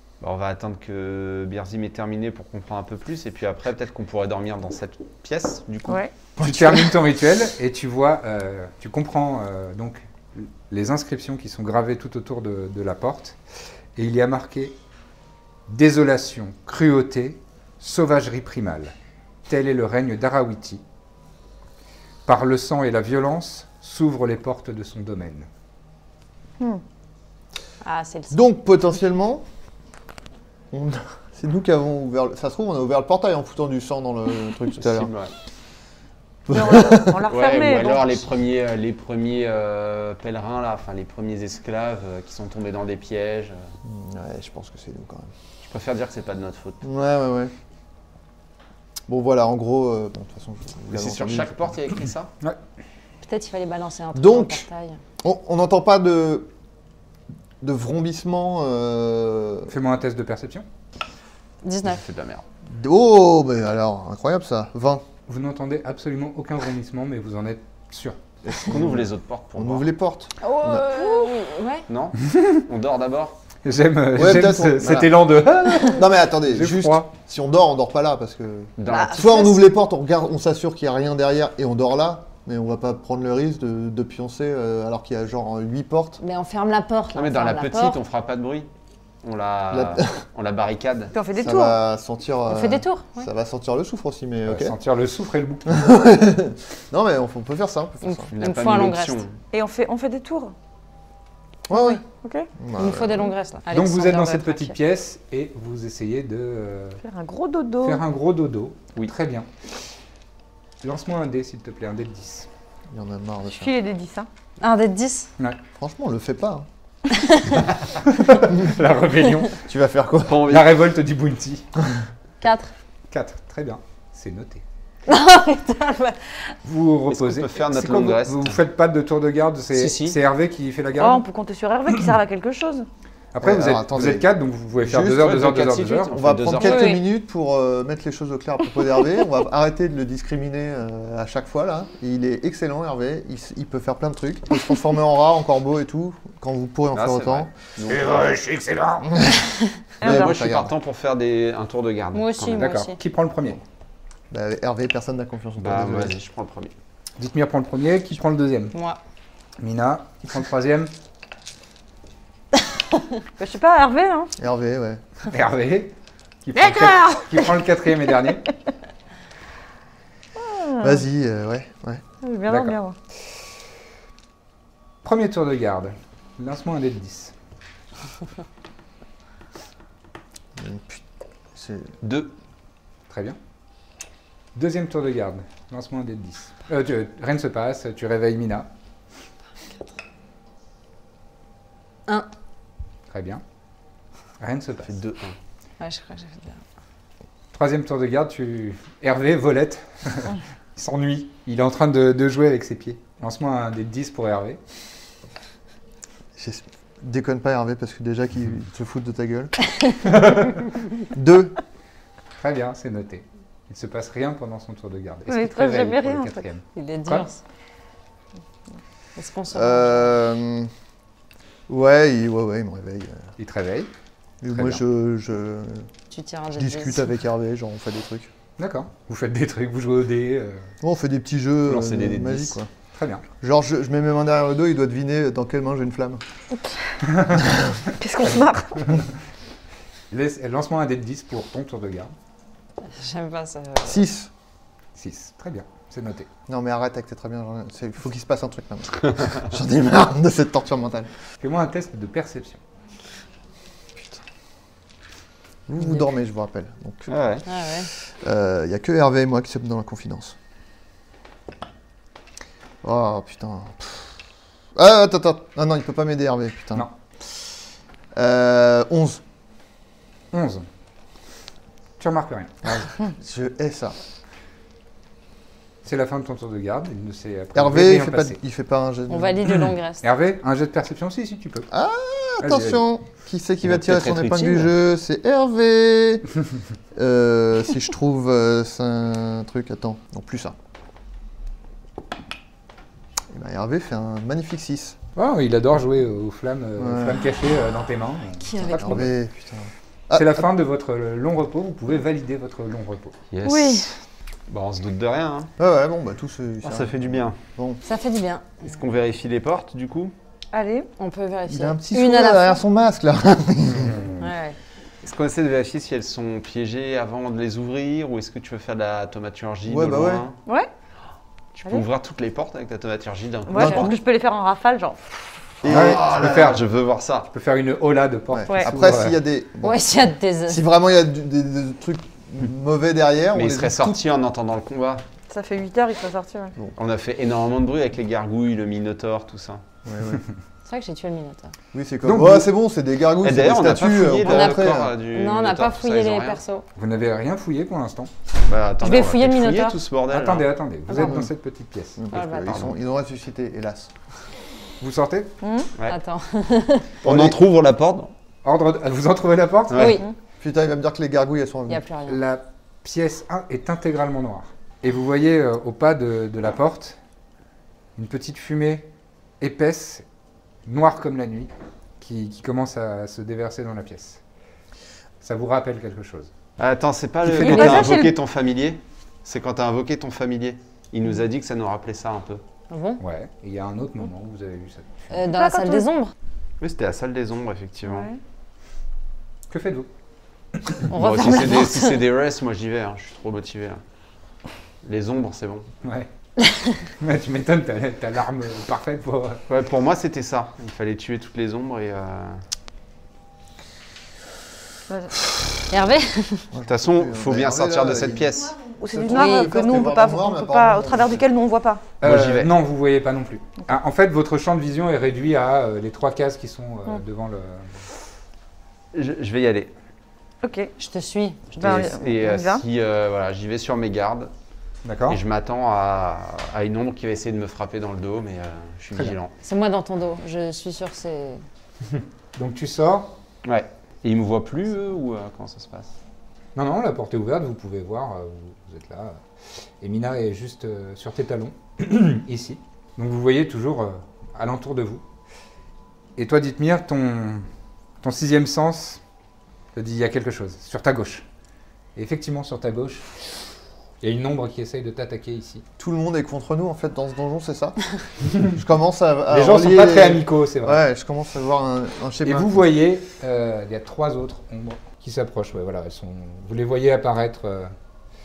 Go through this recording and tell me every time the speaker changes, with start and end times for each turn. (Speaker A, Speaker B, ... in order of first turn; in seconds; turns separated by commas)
Speaker A: 0.2-6.0, Speaker B: 6.4-13.4, Speaker C: 6.4-6.9, Speaker B: 13.9-14.8, Speaker B: 15.7-18.9, Speaker B: 19.5-20.8, Speaker B: 22.2-25.5, Speaker D: 27.8-28.4, Speaker C: 28.3-29.4, Speaker C: 30.7-35.1, Speaker A: 34.8-35.3, Speaker C: 36.5-37.2, Speaker E: 36.5-38.2, Speaker A: 37.3-43.7, Speaker C: 43.8-45.3, Speaker A: 45.6-46.8, Speaker C: 46.8-47.5, Speaker C: 49.1-51.7, Speaker A: 50.9-52.3, Speaker D: 53.2-55.0, Speaker C: 54.1-54.7, Speaker C: 55.2-56.5, Speaker C: 57.6-59.7, Speaker B: 59.7-60.6, Speaker D: 61.6-62.0, Speaker A: 61.8-62.4, Speaker C: 62.6-65.0, Speaker B: 65.3-68.2, Speaker C: 68.4-71.0, Speaker A: 68.7-69.9, Speaker D: 70.4-71.8, Speaker A: 71.9-73.3, Speaker B: 73.6-77.1, Speaker C: 74.1-86.2, Speaker A: 78.8-79.4, Speaker D: 78.9-79.6, Speaker D: 86.2-88.0, Speaker A: 87.1-88.7, Speaker A: 89.2-91.1, Speaker C: 89.7-90.2, Speaker E: 91.1-91.8, Speaker C: 91.4-94.7, Speaker D: 92.5-93.3, Speaker B: 94.5-95.9, Speaker C: 95.7-98.3, Speaker D: 98.0-99.2, Speaker A: 98.3-99.3, Speaker E: 99.5-100.5, Speaker C: 101.7-102.0, Speaker D: 101.7-102.0, Speaker E: 102.1-102.5, Speaker C: 102.6-103.3, Speaker D: 102.8-104.8, Speaker B: 103.7-107.0, Speaker E: 107.0-108.0, Speaker B: 107.8-109.5, Speaker B: 110.8-112.5, Speaker C: 112.9-113.7, Speaker E: 113.5-114.3, Speaker D: 114.6-115.3, Speaker C: 115.7-116.7, Speaker D: 117.2-117.6, Speaker B: 118.0-119.6, Speaker C: 119.7-120.5, Speaker A: 120.2-120.7, Speaker B: 120.5-121.8, Speaker D: 122.4-122.7, Speaker B: 123.1-124.6, Speaker D: 125.1-126.5, Speaker B: 126.6-131.2, Speaker A: 127.1-128.6, Speaker A: 129.7-130.2, Speaker E: 130.9-132.9, Speaker B: 133.3-136.1, Speaker C: 133.4-134.3, Speaker C: 134.8-135.3, Speaker A: 135.2-136.9, Speaker C: 136.1-147.5, Speaker D: 136.6-137.0, Speaker A: 146.9-148.0, Speaker B: 147.9-149.2, Speaker C: 149.0-149.4, Speaker E: 150.0-150.3, Speaker C: 150.0-150.7, Speaker A: 150.0-152.7, Speaker D: 152.1-153.0, Speaker B: 152.6-153.6, Speaker C: 154.3-156.1, Speaker A: 155.6-156.7, Speaker B: 157.2-158.7, Speaker D: 158.7-159.0, Speaker B: 159.6-160.9, Speaker E: 163.4-164.3, Speaker C: 164.4-165.0, Speaker B: 165.3-168.5, Speaker E: 166.6-167.3, Speaker E: 170.3-171.0, Speaker C: 170.8-172.0, Speaker E: 172.2-172.9, Speaker B: 172.5-172.8, Speaker B: 175.0-177.3, Speaker C: 180.6-181.0, Speaker C: 181.5-181.9, Speaker A: 182.0-182.3, Speaker B: 183.1-183.4, Speaker B: 184.5-188.7, Speaker B: 193.1-193.4, Speaker B: 194.4-195.0, Speaker A: 194.8-195.3, Speaker D: 195.8-196.6, Speaker B: 197.5-204.6, Speaker C: 206.3-209.5, Speaker B: 210.1-210.6, Speaker C: 211.1-211.6, Speaker B: 212.4-217.2, Speaker E: 215.3-216.4, Speaker D: 216.7-217.4, Speaker D: 219.2-220.2, Speaker C: 219.5-220.7, Speaker C: 221.7-223.2, Speaker B: 223.4-223.9, Speaker C: 224.4-225.9, Speaker B: 224.5-224.8, Speaker D: 226.1-227.1, Speaker C: 226.5-228.3, Speaker B: 228.6-230.7, Speaker C: 230.8-232.7, Speaker A: 231.7-232.6, Speaker B: 232.9-233.2, Speaker C: 233.4-236.2, Speaker E: 236.5-236.9, Speaker E: 238.0-238.9, Speaker B: 240.1-242.1, Speaker D: 242.8-244.0, Speaker C: 243.8-244.3, Speaker B: 244.9-246.3, Speaker C: 246.5-251.1, Speaker B: 251.4-252.6, Speaker C: 255.7-257.4, Speaker A: 257.1-257.4, Speaker D: 257.4-257.9, Speaker C: 257.9-260.4, Speaker C: 262.8-264.1, Speaker C: 264.7-266.9, Speaker C: 268.1-269.2, Speaker B: 270.3-270.6, Speaker B: 272.0-272.9, Speaker C: 273.1-274.0, Speaker B: 275.8-278.4, Speaker C: 277.5-279.5, Speaker D: 279.1-280.0, Speaker B: 279.5-281.7, Speaker C: 281.7-286.3, Speaker B: 282.4-282.8, Speaker A: 283.6-284.7, Speaker C: 286.9-290.6, Speaker C: 293.3-295.0, Speaker B: 295.1-299.1, Speaker C: 296.8-297.2, Speaker D: 298.4-299.1, Speaker C: 298.6-300.5, Speaker B: 300.1-303.2, Speaker A: 303.3-303.9, Speaker E: 303.5-303.9, Speaker A: 304.5-305.5, Speaker C: 305.6-307.8, Speaker A: 306.6-307.4, Speaker D: 307.8-308.6, Speaker A: 308.6-310.1, Speaker E: 310.5-310.9, Speaker D: 311.0-312.6, Speaker C: 311.5-314.0, Speaker B: 313.7-314.3, Speaker D: 314.2-314.6, Speaker A: 315.0-320.4, Speaker C: 319.6-320.2, Speaker A: 321.5-324.0, Speaker E: 323.5-325.2, Speaker C: 323.5-323.9, Speaker C: 325.6-326.6, Speaker A: 325.6-327.3, Speaker B: 325.7-326.6, Speaker B: 327.3-329.2, Speaker C: 328.3-334.0, Speaker D: 329.6-330.6, Speaker A: 333.3-335.1, Speaker E: 335.3-336.5, Speaker A: 336.8-339.6, Speaker C: 339.8-340.2, Speaker D: 340.6-341.5, Speaker C: 341.7-344.9, Speaker B: 342.0-342.5, Speaker A: 343.2-346.4, Speaker D: 344.2-346.6, Speaker B: 346.8-348.1, Speaker A: 348.5-350.5, Speaker D: 348.8-349.8, Speaker B: 350.1-352.0, Speaker D: 350.9-351.1, Speaker C: 350.9-351.3, Speaker C: 352.0-353.9, Speaker D: 352.1-352.7, Speaker A: 352.1-352.7, Speaker B: 354.8-355.3, Speaker E: 355.4-355.7, Speaker D: 355.9-356.9, Speaker A: 357.0-358.1, Speaker C: 357.0-357.4, Speaker B: 358.4-360.0, Speaker A: 359.7-360.0, Speaker D: 359.7-360.0, Speaker C: 360.4-361.8, Speaker D: 361.7-362.2, Speaker B: 362.1-367.0, Speaker B: 367.9-368.9, Speaker B: 369.4-370.0, Speaker B: 370.6-374.2, Speaker B: 375.2-376.3, Speaker A: 376.6-382.4, Speaker E: 377.3-378.1, Speaker D: 377.4-378.0, Speaker D: 382.7-383.0, Speaker B: 383.0-385.1, Speaker D: 385.1-386.1, Speaker E: 385.3-385.9, Speaker A: 386.6-388.1, Speaker E: 387.8-388.2, Speaker B: 389.5-389.9, Speaker B: 390.6-391.2, Speaker D: 390.9-392.0, Speaker A: 390.9-393.8, Speaker A: 394.8-395.7, Speaker B: 397.0-399.4, Speaker A: 399.5-402.4, Speaker E: 404.9-405.1, Speaker D: 405.7-406.5, Speaker C: 406.5-411.2, Speaker A: 406.7-408.6, Speaker E: 408.6-411.8, Speaker D: 409.1-409.6, Speaker B: 412.0-417.7, Speaker A: 412.0-412.5, Speaker A: 418.9-419.7, Speaker E: 420.4-420.7, Speaker D: 420.8-421.9, Speaker A: 421.6-424.3, Speaker E: 421.6-422.6, Speaker B: 424.8-425.2, Speaker A: 425.1-429.3, Speaker D: 429.4-431.4, Speaker B: 431.9-433.1, Speaker A: 433.4-435.9, Speaker B: 436.5-439.2, Speaker B: 439.8-445.0, Speaker B: 446.2-447.5, Speaker B: 448.0-449.0, Speaker B: 449.7-451.2, Speaker B: 451.9-453.1, Speaker B: 454.0-455.6, Speaker C: 455.8-457.8, Speaker C: 458.4-462.7, Speaker B: 459.3-460.8, Speaker B: 462.2-467.7